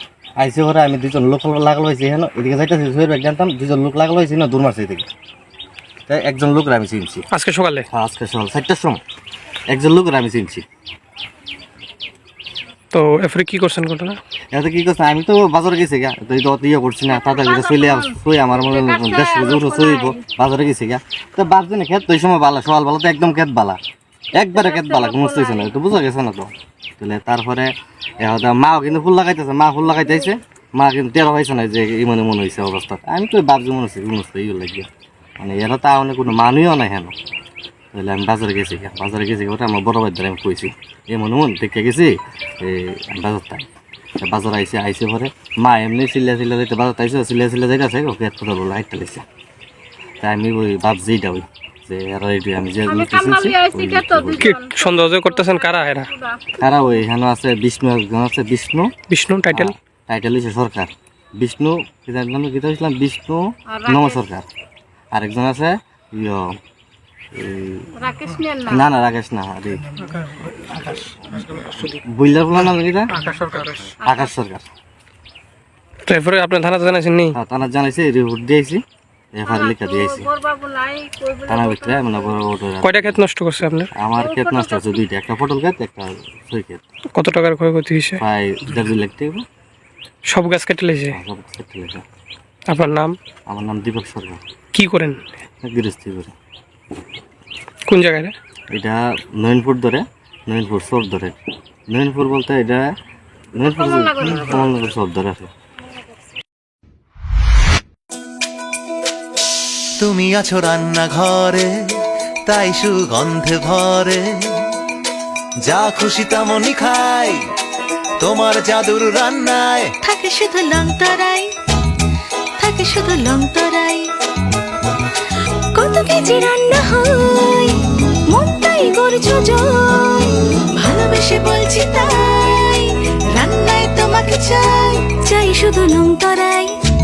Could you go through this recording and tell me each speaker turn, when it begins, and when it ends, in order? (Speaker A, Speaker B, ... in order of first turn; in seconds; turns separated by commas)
Speaker A: 0.4-5.1, Speaker A: 6.1-7.3, Speaker B: 7.3-7.9, Speaker A: 7.9-9.0, Speaker A: 9.7-10.6, Speaker B: 12.9-14.2, Speaker A: 14.5-23.8, Speaker C: 17.1-20.2, Speaker A: 24.3-34.9, Speaker C: 24.4-25.8, Speaker A: 35.4-37.1, Speaker A: 37.9-43.6, Speaker A: 44.2-49.2, Speaker A: 50.2-54.5, Speaker C: 52.9-56.6, Speaker B: 54.4-56.1, Speaker A: 56.6-58.9, Speaker B: 59.1-59.7, Speaker A: 59.5-64.5, Speaker C: 63.7-64.3, Speaker A: 65.1-66.5, Speaker A: 67.3-67.9, Speaker C: 68.0-68.9, Speaker A: 68.7-69.9, Speaker B: 71.3-71.8, Speaker A: 72.0-73.1, Speaker B: 73.2-73.9, Speaker C: 74.0-74.3, Speaker A: 74.0-74.7, Speaker B: 76.1-77.3, Speaker A: 77.3-78.8, Speaker A: 79.3-80.3, Speaker C: 79.5-82.4, Speaker A: 81.5-83.2, Speaker B: 82.8-83.9, Speaker A: 83.9-86.8, Speaker C: 84.2-85.0, Speaker B: 87.1-88.2, Speaker A: 88.2-89.5, Speaker B: 90.3-91.2, Speaker A: 91.1-92.0, Speaker B: 92.7-93.2, Speaker A: 93.5-94.4, Speaker B: 94.7-95.2, Speaker A: 95.6-96.3, Speaker B: 97.9-98.3, Speaker A: 98.7-101.4, Speaker A: 101.9-102.9, Speaker A: 103.5-105.5, Speaker C: 103.6-104.7, Speaker D: 110.0-111.7, Speaker D: 112.5-114.5, Speaker D: 115.6-117.4, Speaker D: 118.2-119.9, Speaker E: 120.0-121.5, Speaker E: 122.6-124.1, Speaker E: 125.7-127.8, Speaker E: 128.3-136.7